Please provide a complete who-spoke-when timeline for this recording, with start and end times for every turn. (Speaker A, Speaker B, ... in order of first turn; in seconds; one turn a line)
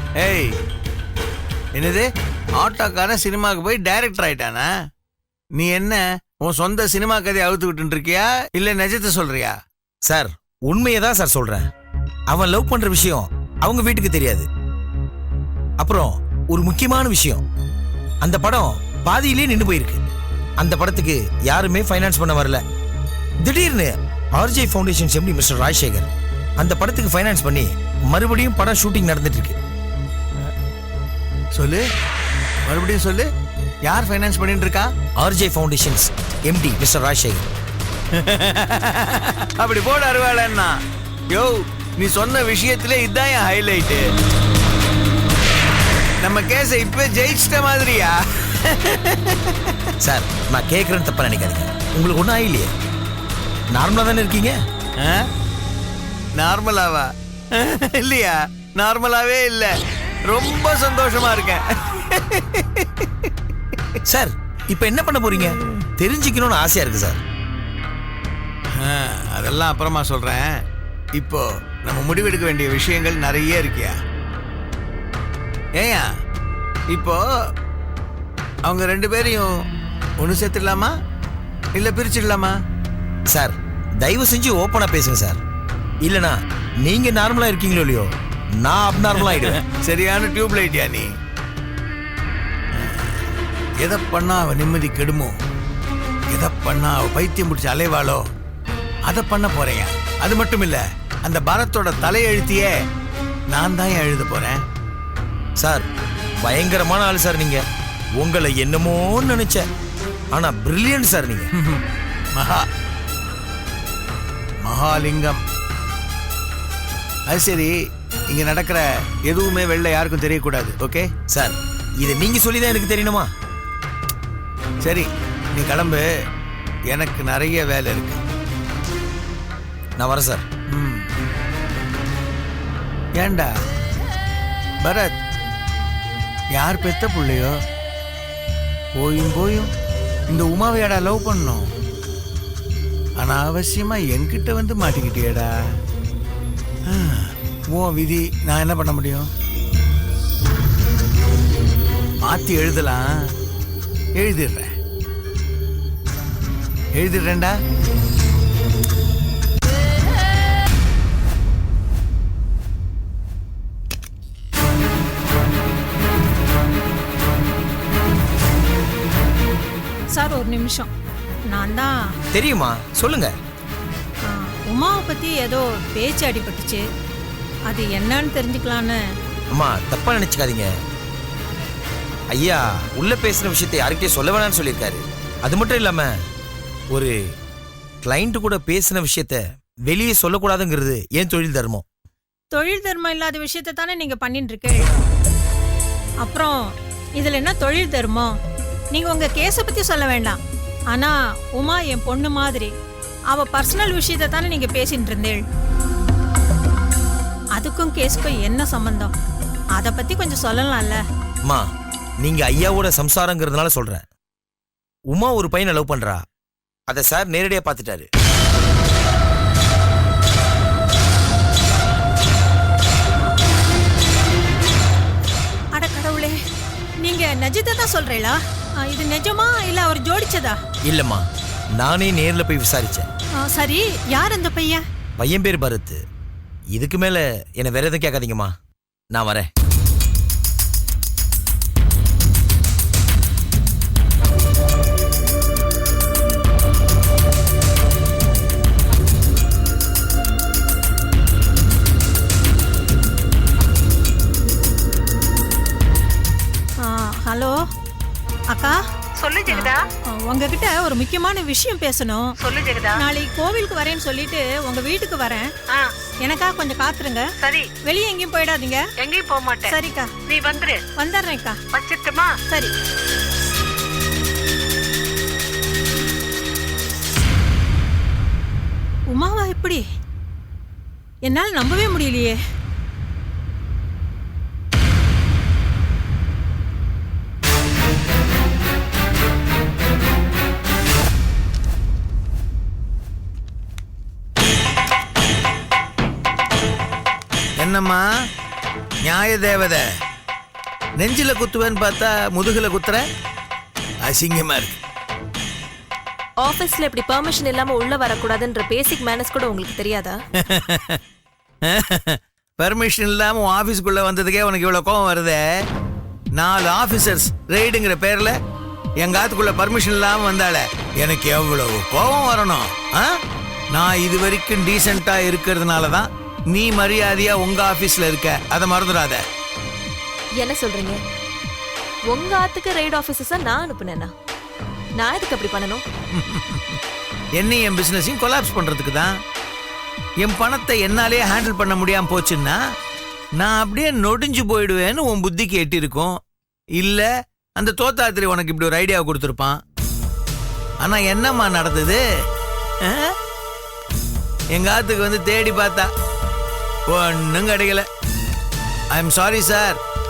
Speaker A: 0.2-0.6
Speaker A: 1.7-4.7
Speaker A: 5.5-9.5
Speaker B: 10.1-11.7
Speaker B: 12.3-14.5
Speaker B: 15.8-17.4
Speaker B: 18.2-20.0
Speaker B: 20.6-22.6
Speaker B: 23.4-26.1
Speaker B: 26.6-29.6
Speaker A: 31.5-31.8
Speaker A: 32.6-33.3
Speaker A: 33.8-34.9
Speaker B: 35.2-37.5
Speaker A: 38.1-40.7
Speaker A: 41.3-44.1
Speaker A: 46.2-49.7
Speaker B: 50.0-52.7
Speaker B: 53.7-54.6
Speaker A: 55.0-55.2
Speaker A: 56.4-59.7
Speaker A: 60.2-63.3
Speaker B: 64.1-67.2
Speaker A: 68.7-70.5
Speaker A: 71.1-73.9
Speaker A: 75.8-76.0
Speaker A: 76.9-77.2
Speaker A: 78.6-79.5
Speaker A: 80.2-80.9
Speaker A: 81.7-82.5
Speaker B: 83.3-85.4
Speaker B: 86.0-88.1
Speaker B: 88.6-89.6
Speaker A: 89.2-91.1
Speaker A: 92.7-93.2
Speaker A: 93.8-95.3
Speaker A: 96.3-98.2
Speaker A: 99.0-102.7
Speaker A: 103.5-104.6
Speaker B: 105.6-105.8
Speaker B: 106.4-107.6
Speaker B: 108.2-109.7
Speaker B: 110.3-111.5
Speaker A: 111.5-111.8
Speaker A: 112.3-112.6
Speaker A: 114.6-115.4
Speaker A: 117.3-117.7
Speaker A: 118.3-121.1
Speaker B: 121.3-123.3
Speaker A: 124.8-126.1
Speaker A: 126.9-128.2
Speaker B: 130.0-130.4
Speaker A: 130.7-131.0
Speaker A: 133.2-133.5
Speaker A: 134.8-135.2
Speaker A: 136.5-137.6
Speaker A: 138.9-139.7
Speaker A: 140.3-141.7
Speaker A: 143.2-145.5
Speaker A: 146.9-149.3
Speaker A: 152.2-153.1
Speaker A: 154.2-154.7
Speaker A: 156.9-157.5
Speaker C: 170.1-170.9
Speaker C: 171.5-171.9
Speaker B: 172.3-173.3
Speaker C: 174.3-176.8
Speaker C: 177.7-179.0
Speaker B: 179.5-180.7
Speaker B: 182.3-186.1
Speaker B: 188.0-191.8
Speaker C: 192.5-194.9
Speaker C: 196.2-196.6
Speaker C: 197.2-198.3
Speaker C: 198.9-200.4
Speaker C: 200.9-202.7
Speaker C: 203.3-205.4
Speaker C: 207.6-209.1
Speaker C: 209.8-211.0
Speaker B: 212.2-214.0
Speaker B: 215.1-216.2
Speaker B: 216.9-218.1
Speaker C: 225.7-226.3
Speaker C: 227.0-230.6
Speaker B: 230.9-231.2
Speaker B: 231.8-233.1
Speaker C: 233.5-234.8
Speaker B: 235.2-236.0
Speaker B: 236.7-238.5
Speaker B: 239.1-239.5
Speaker C: 256.9-257.6
Speaker C: 258.5-258.8
Speaker D: 259.2-259.8
Speaker C: 259.4-262.3
Speaker D: 262.4-263.0
Speaker C: 262.9-265.5
Speaker C: 266.2-267.3
Speaker D: 267.4-267.7
Speaker C: 267.8-268.8
Speaker D: 269.0-270.8
Speaker C: 269.6-271.7
Speaker D: 271.7-272.3
Speaker C: 272.5-272.7
Speaker C: 279.1-279.8
Speaker C: 281.2-282.4
Speaker A: 297.6-298.0
Speaker A: 299.0-299.8
Speaker A: 301.0-303.0
Speaker A: 304.0-304.8
Speaker E: 306.4-310.2
Speaker A: 310.5-311.0
Speaker A: 311.7-315.4
Speaker A: 316.4-318.3
Speaker A: 319.0-323.1
Speaker A: 323.7-329.2
Speaker E: 330.4-331.0
Speaker E: 332.1-334.1
Speaker E: 335.0-335.8
Speaker A: 336.1-336.8
Speaker A: 337.4-339.1
Speaker A: 340.2-342.6
Speaker A: 343.4-346.2
Speaker A: 346.8-349.6
Speaker A: 350.8-352.0
Speaker A: 352.8-353.1
Speaker A: 354.5-355.9
Speaker A: 356.9-357.9
Speaker A: 358.9-359.8